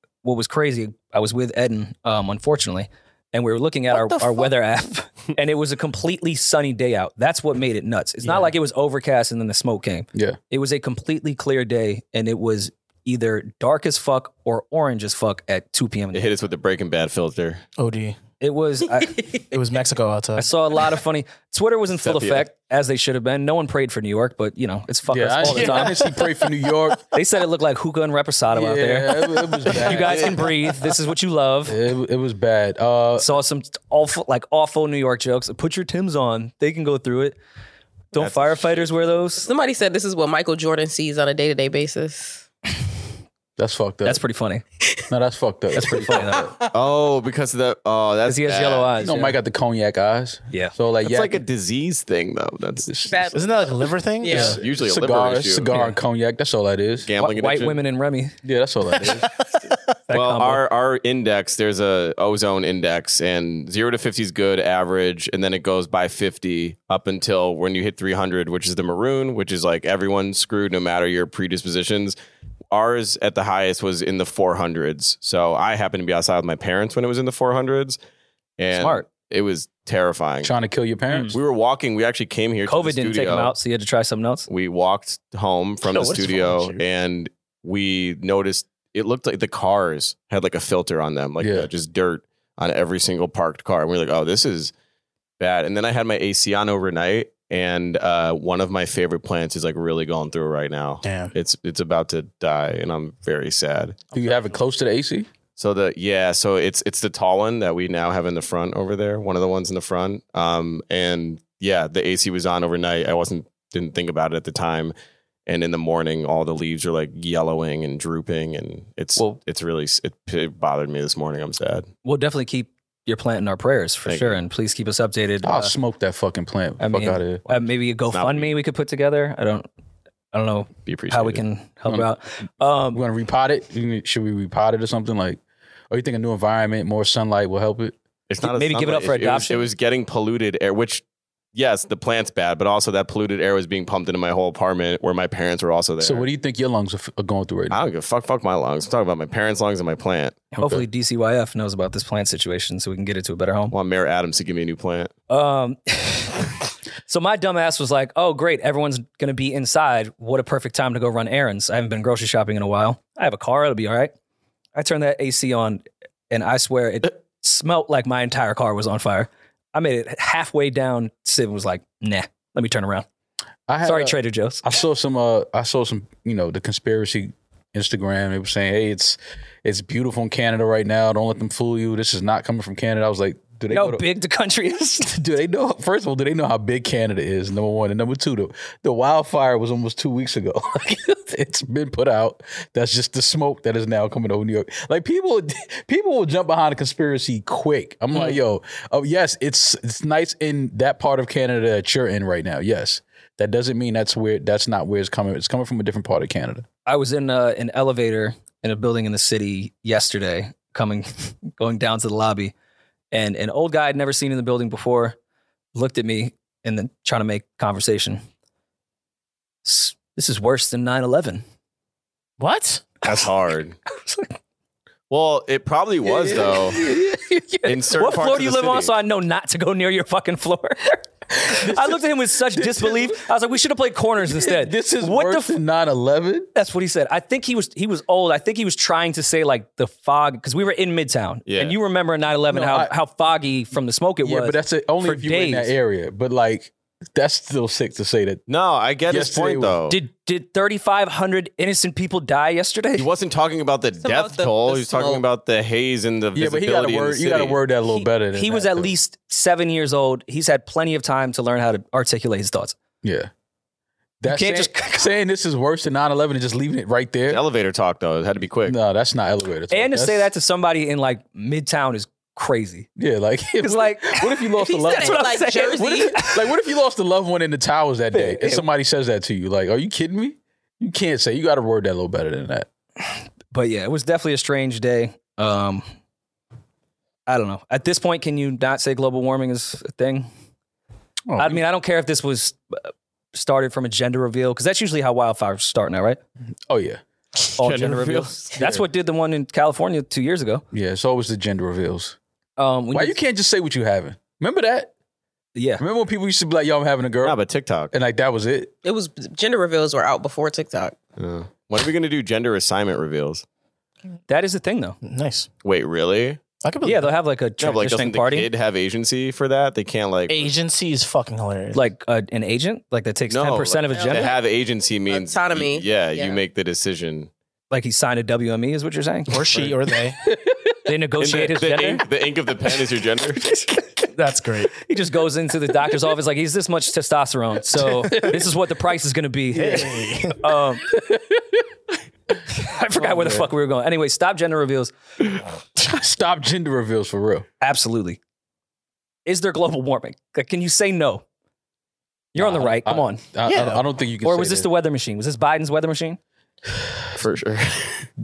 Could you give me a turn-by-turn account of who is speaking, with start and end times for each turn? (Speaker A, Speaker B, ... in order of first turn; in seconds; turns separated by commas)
Speaker A: 0.2-16.3, Speaker B: 3.9-4.5, Speaker B: 8.2-8.5, Speaker C: 16.1-17.6, Speaker B: 17.8-18.2, Speaker A: 18.4-19.3, Speaker B: 19.5-20.5, Speaker A: 20.4-25.9, Speaker C: 22.0-22.4, Speaker D: 25.1-27.0, Speaker B: 25.5-26.5, Speaker A: 27.1-31.8, Speaker D: 28.5-30.4, Speaker B: 29.7-30.3, Speaker D: 31.7-33.4, Speaker A: 33.2-37.4, Speaker A: 38.1-39.5, Speaker C: 38.1-39.0, Speaker E: 39.4-42.4, Speaker D: 43.6-44.2, Speaker A: 44.0-44.6, Speaker D: 45.1-46.7, Speaker A: 45.8-46.4, Speaker C: 46.7-48.9, Speaker A: 48.3-49.4, Speaker D: 49.0-51.4, Speaker C: 51.0-52.9, Speaker D: 52.9-53.4, Speaker E: 53.0-53.5, Speaker B: 53.3-54.6, Speaker E: 54.2-54.6, Speaker D: 54.3-57.1, Speaker C: 54.3-55.7, Speaker C: 57.0-57.8, Speaker A: 57.2-58.4, Speaker D: 58.4-59.3, Speaker B: 59.0-59.8, Speaker A: 60.1-60.6, Speaker C: 60.1-72.2, Speaker C: 72.7-78.0, Speaker C: 78.6-80.5, Speaker A: 78.7-79.0, Speaker D: 80.4-81.4, Speaker A: 81.1-81.4, Speaker C: 81.3-83.5, Speaker A: 82.7-84.5, Speaker C: 84.5-94.7, Speaker B: 85.8-86.8, Speaker D: 91.4-91.7, Speaker C: 95.4-104.0, Speaker B: 101.0-101.3, Speaker B: 104.1-104.5, Speaker D: 104.1-105.3, Speaker C: 105.6-114.9, Speaker C: 115.5-121.9, Speaker A: 122.0-125.7, Speaker C: 124.0-124.4, Speaker D: 125.4-127.4, Speaker A: 126.8-129.7, Speaker C: 128.1-128.6, Speaker A: 130.3-133.0, Speaker C: 130.8-131.4, Speaker D: 132.9-137.9, Speaker C: 138.3-141.0, Speaker A: 138.4-139.6, Speaker C: 141.5-146.3, Speaker D: 146.0-147.8, Speaker C: 147.7-150.4, Speaker A: 150.5-153.7, Speaker D: 150.6-150.8, Speaker C: 153.7-155.1, Speaker A: 155.3-156.5, Speaker A: 157.1-164.1, Speaker A: 164.8-173.1, Speaker D: 173.7-184.0, Speaker A: 173.8-174.6, Speaker A: 183.7-185.1, Speaker D: 185.0-206.7, Speaker A: 198.1-198.4, Speaker A: 206.8-212.5, Speaker A: 213.1-215.2, Speaker A: 215.7-218.2, Speaker A: 219.6-221.4, Speaker B: 222.4-222.9, Speaker C: 223.0-223.8, Speaker A: 224.0-224.3, Speaker C: 225.1-226.8, Speaker D: 226.1-227.7, Speaker C: 227.6-228.9, Speaker A: 228.0-235.6, Speaker D: 231.4-233.2, Speaker D: 234.2-236.5, Speaker A: 236.5-245.7, Speaker C: 241.5-241.8, Speaker D: 242.5-242.9, Speaker D: 244.2-248.4, Speaker C: 248.5-250.0, Speaker D: 249.1-249.8, Speaker A: 249.9-253.1, Speaker C: 252.9-257.6, Speaker E: 254.0-255.2, Speaker D: 256.3-258.9, Speaker A: 257.9-262.8, Speaker D: 263.0-263.3, Speaker D: 264.2-267.4, Speaker A: 264.3-265.1, Speaker C: 267.3-268.8, Speaker D: 268.6-270.3, Speaker A: 269.7-272.9, Speaker D: 272.9-282.7, Speaker A: 273.6-276.4, Speaker E: 274.6-276.2, Speaker A: 278.1-278.6, Speaker A: 283.5-285.9, Speaker A: 287.3-290.3, Speaker D: 291.3-291.6, Speaker A: 291.4-296.2, Speaker D: 296.7-297.0, Speaker A: 297.6-300.6, Speaker C: 297.6-298.5, Speaker D: 298.6-298.8, Speaker D: 300.7-302.1, Speaker A: 302.6-303.1, Speaker D: 302.9-304.9, Speaker A: 305.5-305.8, Speaker D: 305.8-307.4, Speaker C: 307.2-307.9, Speaker D: 307.9-308.7, Speaker E: 308.8-310.9, Speaker C: 311.2-313.4, Speaker A: 314.3-315.0, Speaker B: 315.0-315.5, Speaker C: 315.6-316.4, Speaker B: 316.6-317.1, Speaker A: 316.8-318.5, Speaker C: 317.6-320.5, Speaker B: 320.3-321.8, Speaker A: 321.7-324.3, Speaker C: 323.3-327.3, Speaker E: 323.9-324.3, Speaker E: 325.1-326.4, Speaker A: 327.7-329.4, Speaker B: 329.3-330.2, Speaker D: 330.2-330.8, Speaker A: 330.9-332.0, Speaker C: 331.2-333.4, Speaker B: 334.1-334.7, Speaker A: 334.8-340.8, Speaker D: 337.8-338.4, Speaker B: 339.5-340.4, Speaker D: 340.9-341.6, Speaker A: 342.5-344.9, Speaker D: 343.0-343.5, Speaker D: 345.8-347.4, Speaker A: 347.6-348.2, Speaker A: 349.2-351.2, Speaker A: 352.3-353.2, Speaker D: 352.4-354.7, Speaker B: 353.4-353.8, Speaker A: 354.2-356.2, Speaker C: 357.1-358.0